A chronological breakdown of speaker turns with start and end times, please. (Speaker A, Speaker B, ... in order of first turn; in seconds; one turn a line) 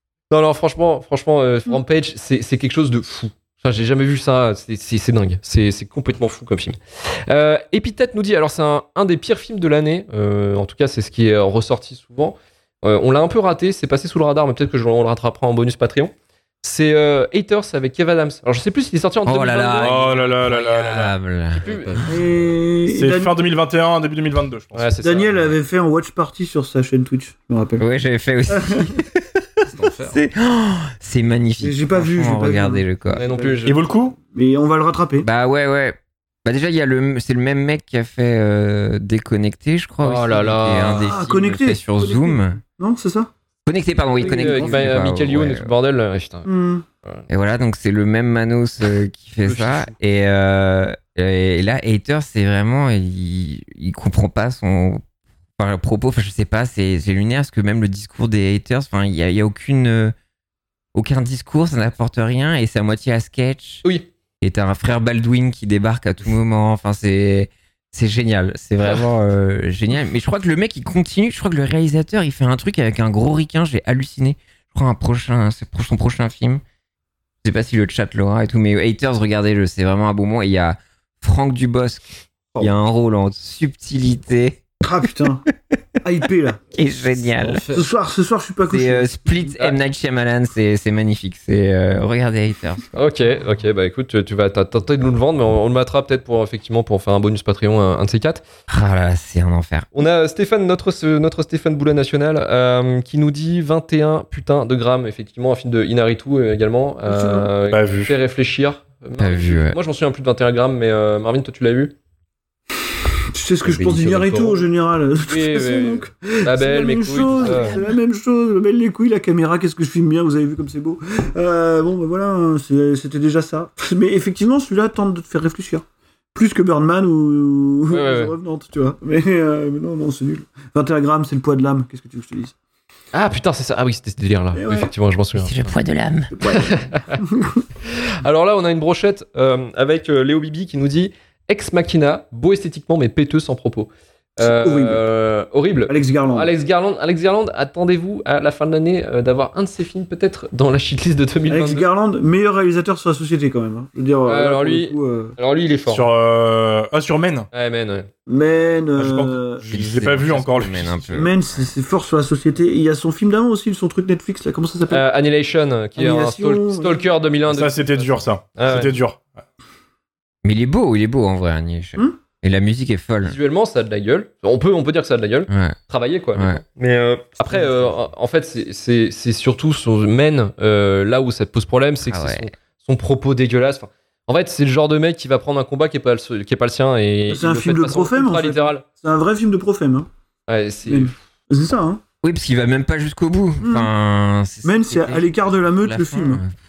Speaker A: 0.3-20.6
Speaker B: 19.2-21.6
Speaker C: 19.8-21.1
Speaker A: 21.5-22.0
Speaker D: 21.6-22.5
Speaker E: 22.1-23.3
Speaker C: 22.9-24.9
Speaker A: 24.7-25.6
Speaker E: 25.0-27.9
Speaker B: 27.8-29.2
Speaker E: 28.5-29.0
Speaker D: 29.7-30.2
Speaker B: 30.1-33.2
Speaker E: 31.6-33.6
Speaker A: 33.1-33.8
Speaker C: 33.6-34.1
Speaker E: 34.2-35.3
Speaker B: 35.2-42.6
Speaker A: 40.0-41.2
Speaker E: 40.9-43.3
Speaker B: 43.6-45.7
Speaker A: 44.2-46.5
Speaker E: 44.2-44.9
Speaker E: 46.4-46.8
Speaker B: 47.3-55.0
Speaker A: 49.4-49.9
Speaker B: 55.6-60.1
Speaker B: 60.9-63.8
Speaker B: 64.4-76.6
Speaker B: 77.4-84.6
Speaker E: 84.8-85.4
Speaker E: 86.0-86.6
Speaker B: 86.7-87.6
Speaker D: 87.3-87.9
Speaker E: 87.7-89.6
Speaker B: 88.7-93.0
Speaker A: 92.9-98.4
Speaker B: 98.7-99.9
Speaker A: 99.9-111.9
Speaker E: 107.0-107.5
Speaker C: 107.7-108.1
Speaker B: 109.2-109.8
Speaker E: 113.3-132.5
Speaker D: 113.6-114.7
Speaker A: 115.2-117.8
Speaker A: 127.9-128.3
Speaker A: 133.1-135.7
Speaker E: 134.5-134.9
Speaker B: 135.3-136.4
Speaker E: 136.3-137.6
Speaker A: 136.5-137.2
Speaker A: 137.9-151.8
Speaker E: 144.4-145.0
Speaker E: 145.9-146.5
Speaker E: 151.5-155.3
Speaker A: 154.2-156.1
Speaker C: 155.9-157.5
Speaker A: 157.5-158.1
Speaker E: 158.3-159.6
Speaker C: 159.0-161.3
Speaker B: 159.7-161.7
Speaker E: 161.1-165.0
Speaker A: 164.9-168.9
Speaker E: 166.0-167.1
Speaker C: 167.5-169.3
Speaker B: 170.4-173.4
Speaker A: 173.2-188.8
Speaker B: 175.5-175.8
Speaker B: 176.3-176.6
Speaker B: 182.1-182.5
Speaker E: 187.3-190.1
Speaker A: 190.5-191.1
Speaker E: 190.9-192.0
Speaker B: 192.2-196.5
Speaker E: 193.6-193.9
Speaker E: 194.6-196.4